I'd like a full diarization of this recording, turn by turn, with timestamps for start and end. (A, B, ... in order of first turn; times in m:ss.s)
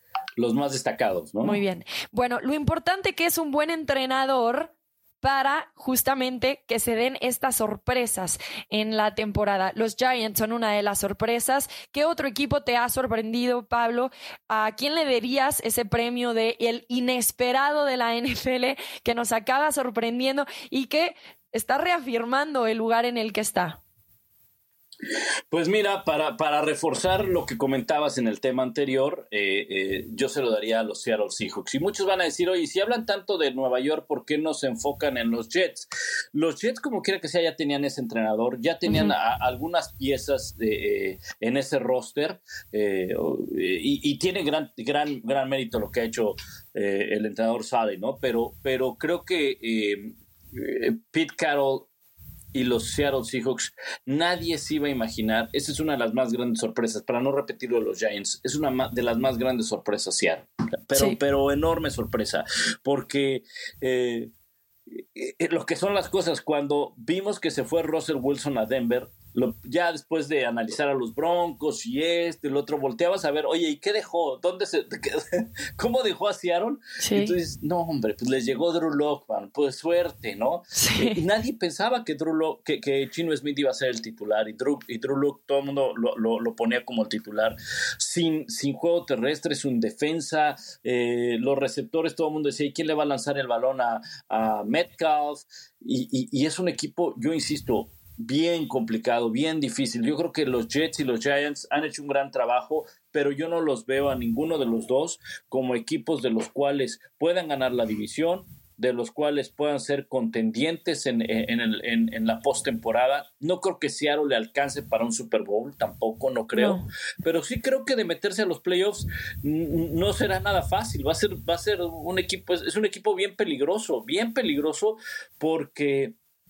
0:00.4-0:01.6 A
0:01.4-0:23.8 B
0:25.5-0:51.9 A
0:38.9-0:39.1 B
0:52.5-1:04.3 A
1:04.9-2:06.2 A
1:17.0-1:17.3 B
1:20.8-1:21.2 B
1:56.6-1:56.8 B